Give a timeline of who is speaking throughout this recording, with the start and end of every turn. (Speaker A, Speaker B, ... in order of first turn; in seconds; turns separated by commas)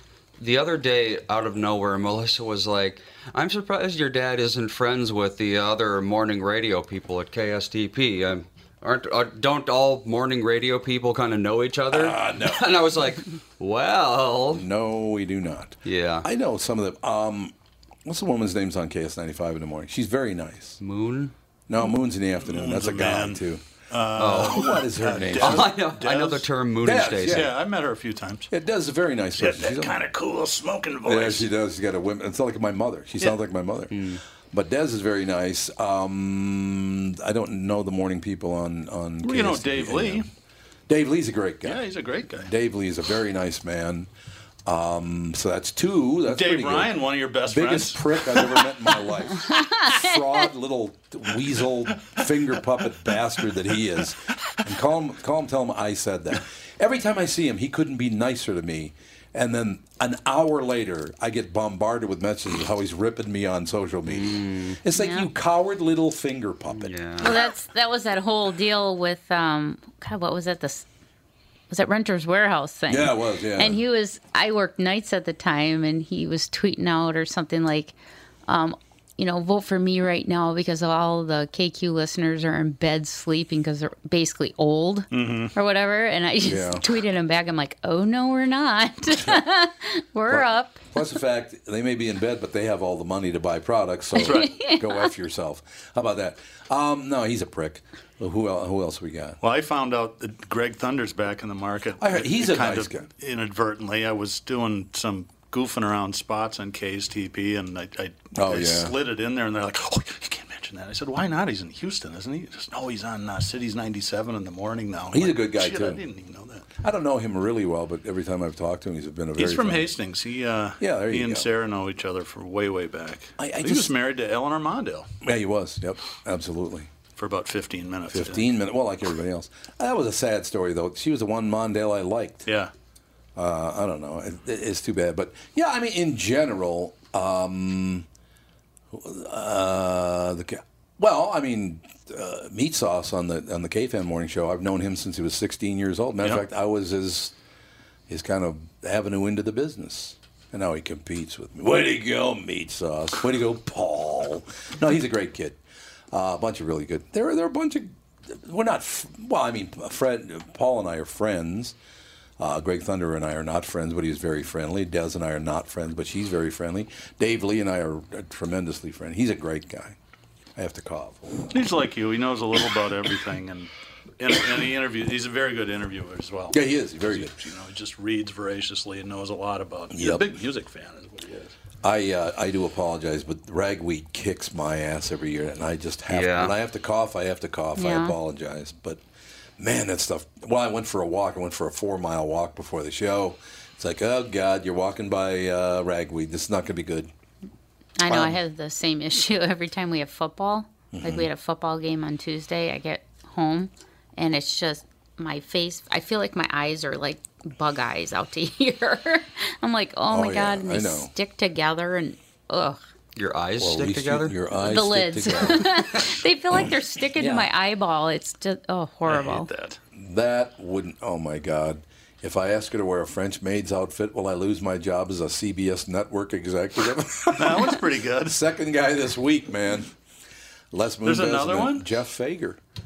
Speaker A: 0.4-14.6, Speaker B: 11.9-12.7, Speaker B: 14.5-17.5, Speaker A: 15.8-16.3, Speaker B: 18.1-20.8, Speaker A: 20.8-21.3, Speaker B: 21.7-23.6, Speaker C: 22.4-26.5, Speaker A: 24.2-24.8, Speaker B: 24.4-25.7, Speaker A: 25.4-27.5, Speaker B: 26.8-27.5, Speaker C: 27.2-28.5, Speaker B: 28.5-30.0, Speaker C: 29.4-31.5, Speaker B: 31.1-34.0, Speaker A: 33.9-34.2, Speaker B: 34.5-40.3, Speaker C: 39.2-40.3, Speaker B: 40.9-41.8, Speaker C: 41.6-42.5, Speaker B: 42.4-44.1, Speaker B: 44.7-66.9, Speaker C: 46.3-48.7, Speaker D: 49.5-50.1, Speaker A: 64.1-64.8, Speaker D: 64.9-65.3, Speaker A: 66.7-67.4, Speaker D: 67.2-70.9, Speaker D: 71.7-78.0, Speaker B: 72.9-73.8, Speaker D: 78.5-90.8, Speaker C: 85.1-85.5, Speaker B: 86.5-86.8, Speaker B: 90.3-99.4, Speaker D: 94.2-95.1, Speaker C: 94.2-94.5, Speaker C: 99.4-116.7, Speaker B: 102.0-103.1, Speaker B: 108.3-108.9, Speaker B: 115.1-116.0, Speaker B: 116.8-119.9, Speaker C: 119.4-125.1, Speaker B: 120.8-121.5, Speaker B: 123.4-123.9, Speaker B: 125.2-126.9, Speaker C: 127.2-128.5, Speaker B: 128.1-132.5, Speaker C: 132.5-132.7, Speaker B: 133.4-138.1, Speaker B: 138.9-147.3, Speaker B: 148.1-155.6, Speaker B: 156.1-161.8, Speaker B: 162.4-170.0, Speaker B: 170.6-171.6, Speaker C: 171.5-181.5, Speaker B: 176.5-177.3, Speaker B: 179.9-180.4, Speaker B: 181.8-189.0, Speaker A: 186.1-186.5, Speaker D: 187.8-188.2, Speaker B: 189.6-197.1, Speaker D: 198.0-212.8, Speaker B: 198.1-198.4, Speaker B: 200.9-201.3, Speaker B: 210.1-211.1, Speaker A: 213.2-214.4, Speaker B: 213.6-215.9, Speaker D: 214.6-219.5, Speaker B: 217.2-217.5, Speaker C: 219.1-219.8, Speaker B: 219.9-229.9, Speaker C: 227.3-228.4, Speaker B: 230.7-232.6, Speaker C: 231.0-231.9